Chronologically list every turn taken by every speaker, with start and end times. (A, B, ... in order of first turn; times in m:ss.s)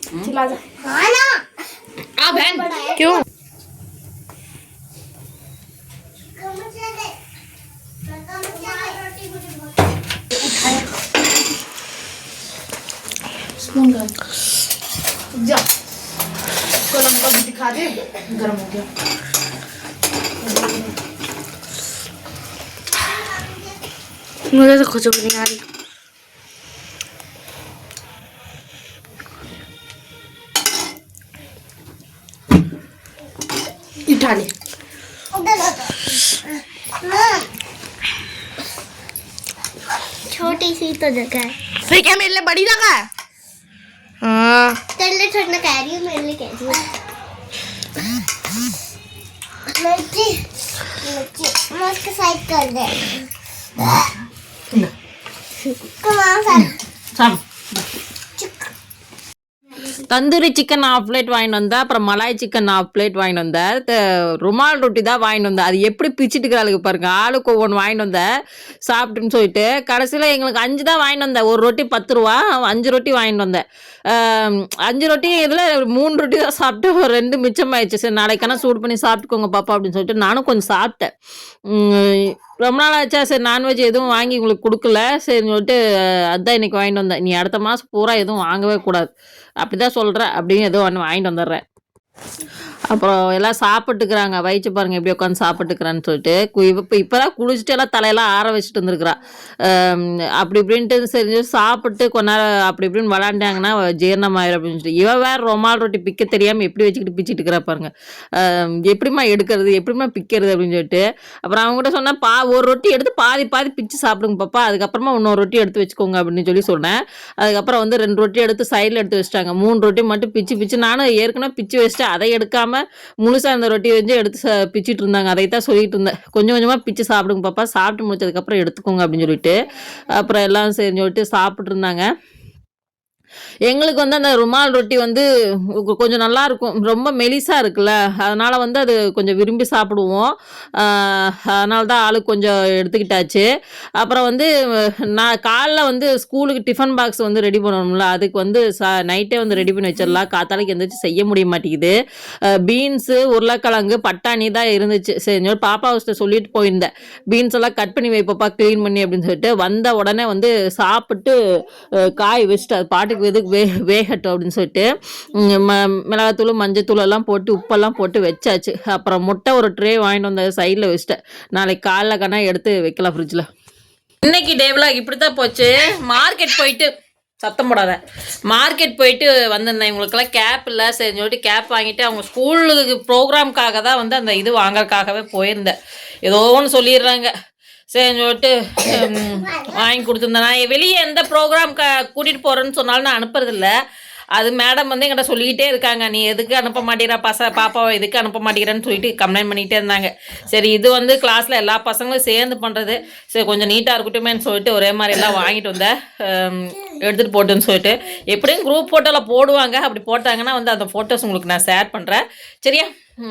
0:00.8-0:01.4 A
0:02.3-0:03.2 A
0:02.4-0:02.6 B
0:03.0-0:03.2 C
0:06.4-0:07.1 A
0:08.0-0:09.7 A
0:10.4-0:10.8 B
0:13.6-0:14.1 B
0:15.4-0:15.6 B
0:16.9-0:18.9 B
0:20.4-0:20.9 B
0:23.0-0:23.6 A
0:24.5-0:25.6 C
0:34.0-0:34.5 B
0:35.3-0:36.0 A
0:37.0-0:37.4 A
0:40.3-0:41.5 A
0:41.8-0:43.0 C
0:44.2-0:44.8 C
0:45.0-0:46.8 A
0:49.7-0:50.4 A
0:51.0-0:53.2 A
0:53.8-0:54.1 A
0:56.0-0:56.8 A
0:57.1-0:57.8 D
0:58.4-0:58.7 A
1:00.0-1:08.2 D
1:08.9-1:21.1 D
1:21.7-1:25.8 D
1:26.3-1:29.1 D
1:29.6-1:31.6 D
1:32.9-2:09.6 D
2:10.1-2:12.1 D
2:13.7-2:15.2 D
2:15.8-2:23.4 D
2:24.0-2:24.5 D
2:25.1-2:32.0 D
2:32.5-2:41.3 D
2:42.0-2:53.5 D
2:54.2-2:56.9 D
2:57.4-3:07.3 D
3:07.9-3:13.7 D
3:09.4-3:09.7 A
3:14.4-3:32.9 D